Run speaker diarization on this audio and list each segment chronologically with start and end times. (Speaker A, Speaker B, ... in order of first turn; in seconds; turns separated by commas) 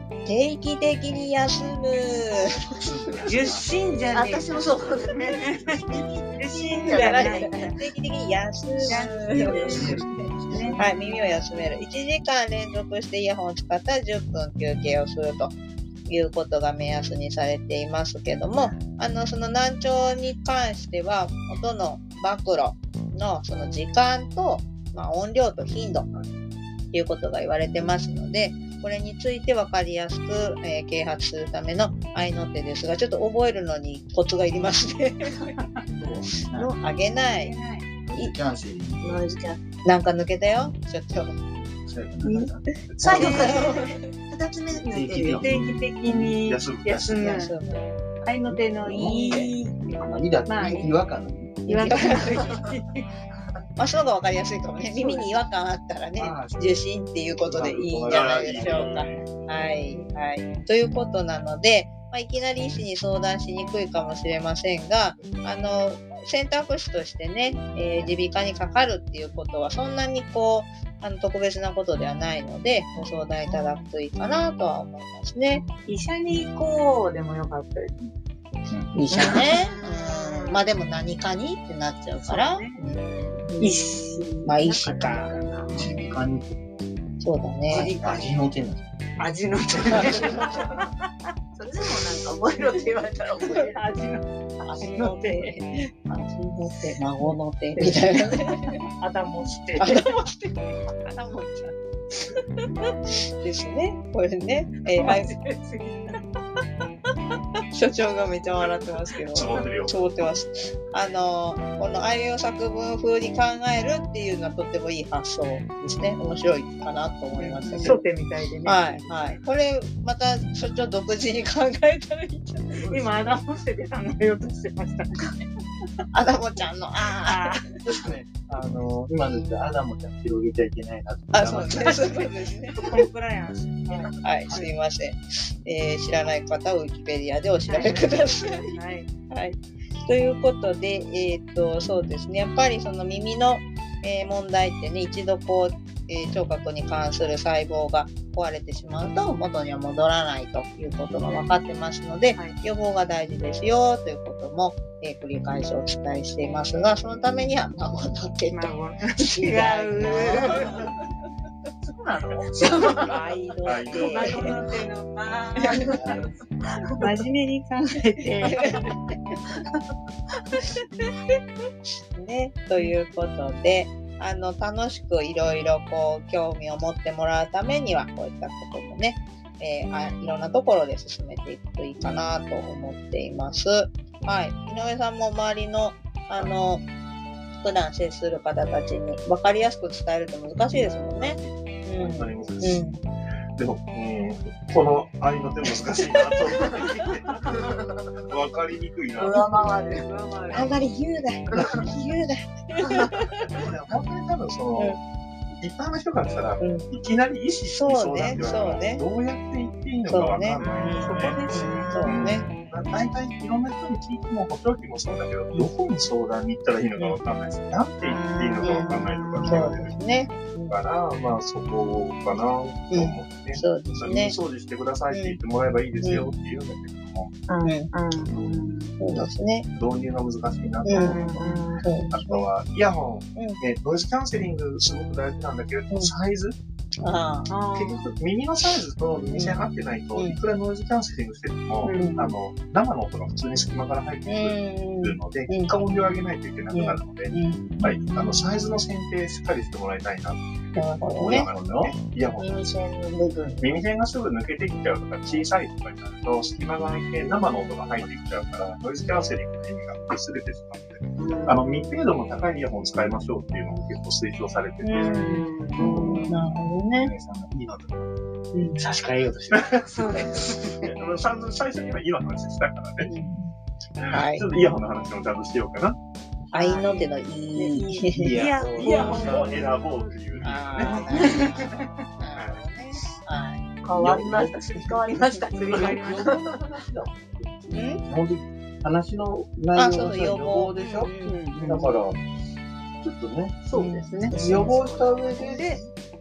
Speaker A: 0.2-2.8, Speaker B: 2.7-3.7, Speaker C: 3.2-4.5, Speaker D: 4.1-7.7, Speaker C: 5.3-7.7, Speaker A: 6.9-15.6, Speaker C: 8.8-10.9, Speaker B: 9.5-10.7, Speaker A: 16.1-26.1, Speaker A: 26.9-35.5, Speaker B: 36.0-36.7, Speaker A: 36.5-37.5, Speaker C: 37.2-37.9, Speaker B: 38.1-39.2, Speaker D: 39.0-39.6, Speaker A: 39.9-41.4, Speaker B: 41.8-42.6, Speaker E: 42.9-43.3, Speaker D: 43.0-45.5, Speaker A: 43.1-44.0, Speaker C: 43.1-43.9, Speaker B: 44.7-46.3, Speaker C: 45.3-47.6, Speaker E: 46.4-47.5, Speaker A: 47.2-47.9, Speaker C: 48.2-49.8, Speaker B: 48.5-52.3, Speaker A: 49.2-49.5, Speaker C: 50.5-50.9, Speaker C: 51.7-53.1, Speaker A: 51.9-52.4, Speaker D: 52.3-52.6, Speaker A: 53.8-75.6, Speaker C: 54.8-55.3, Speaker B: 56.2-56.6, Speaker B: 57.4-59.0, Speaker E: 57.7-59.3, Speaker C: 67.7-68.2, Speaker C: 75.8-78.1, Speaker A: 79.0-83.5, Speaker C: 79.1-80.6, Speaker C: 82.2-82.8, Speaker D: 83.5-83.9, Speaker C: 83.6-85.8, Speaker A: 84.5-86.1, Speaker B: 85.7-86.6, Speaker A: 87.2-88.0, Speaker C: 87.7-88.3, Speaker B: 87.7-88.8, Speaker C: 89.2-90.9, Speaker D: 91.5-93.7, Speaker C: 93.4-95.5, Speaker A: 94.7-98.8, Speaker C: 96.9-97.3, Speaker C: 99.0-101.4, Speaker A: 99.8-100.4, Speaker A: 101.2-101.5, Speaker A: 103.1-105.3, Speaker C: 104.9-106.2, Speaker A: 107.7-118.0, Speaker E: 109.3-110.3, Speaker C: 117.3-119.3, Speaker A: 118.7-123.0, Speaker C: 122.8-125.4, Speaker A: 126.1-127.6, Speaker C: 127.2-127.7, Speaker B: 127.8-132.2, Speaker A: 131.3-132.8, Speaker C: 131.8-132.2, Speaker C: 132.8-134.7, Speaker A: 133.9-138.7, Speaker C: 137.7-139.1, Speaker A: 139.3-160.9, Speaker C: 158.5-160.7, Speaker C: 162.6-163.2, Speaker A: 163.0-164.6, Speaker E: 163.6-164.4, Speaker C: 163.9-166.3, Speaker A: 165.6-165.9, Speaker B: 165.9-166.2, Speaker C: 167.0-168.7, Speaker A: 168.3-169.1, Speaker A: 172.1-186.8, Speaker A: 187.6-193.0, Speaker E: 191.2-192.8, Speaker E: 193.6-197.7, Speaker E: 198.2-199.7, Speaker D: 199.2-200.0, Speaker C: 199.9-200.9, Speaker A: 200.5-203.3, Speaker E: 203.3-205.0, Speaker E: 205.6-220.0, Speaker A: 206.6-206.8, Speaker A: 207.7-209.0, Speaker A: 210.1-212.5, Speaker C: 210.6-212.0, Speaker C: 218.0-218.9, Speaker A: 218.6-220.8, Speaker E: 220.7-227.3, Speaker A: 222.9-224.4, Speaker A: 225.1-225.4, Speaker A: 226.0-226.3, Speaker A: 227.6-227.9, Speaker D: 228.1-228.7, Speaker A: 229.0-229.7, Speaker E: 229.8-231.4, Speaker A: 230.8-231.2, Speaker D: 230.9-231.8, Speaker C: 230.9-231.7, Speaker A: 231.8-232.5, Speaker E: 232.1-236.6, Speaker A: 237.0-237.5, Speaker C: 237.5-238.1, Speaker E: 237.7-250.4, Speaker A: 239.3-239.6, Speaker C: 241.8-242.3, Speaker A: 241.9-242.2, Speaker A: 244.3-245.7, Speaker A: 246.7-247.7, Speaker A: 250.8-251.5, Speaker E: 251.1-252.7, Speaker D: 252.4-253.8, Speaker E: 253.6-265.4, Speaker D: 261.2-261.7, Speaker A: 264.9-265.2, Speaker C: 265.1-266.0, Speaker D: 265.1-266.3, Speaker B: 265.8-268.1, Speaker A: 266.2-267.1, Speaker B: 268.8-270.9, Speaker C: 269.9-270.6, Speaker E: 270.6-273.1, Speaker E: 274.0-276.0, Speaker A: 274.1-274.6, Speaker C: 276.5-277.1, Speaker A: 276.5-278.4, Speaker C: 277.7-280.1, Speaker B: 278.2-279.6, Speaker E: 278.8-281.3, Speaker B: 280.3-280.7, Speaker A: 280.4-283.6, Speaker C: 280.8-281.8, Speaker E: 282.3-282.7, Speaker D: 283.8-286.6, Speaker B: 284.0-284.5, Speaker B: 285.7-292.2, Speaker C: 285.7-286.1, Speaker A: 287.7-288.0, Speaker A: 289.7-291.4, Speaker C: 291.2-291.9, Speaker B: 293.0-295.8, Speaker C: 293.7-294.4, Speaker A: 293.8-294.3, Speaker D: 294.3-295.6, Speaker C: 295.4-295.8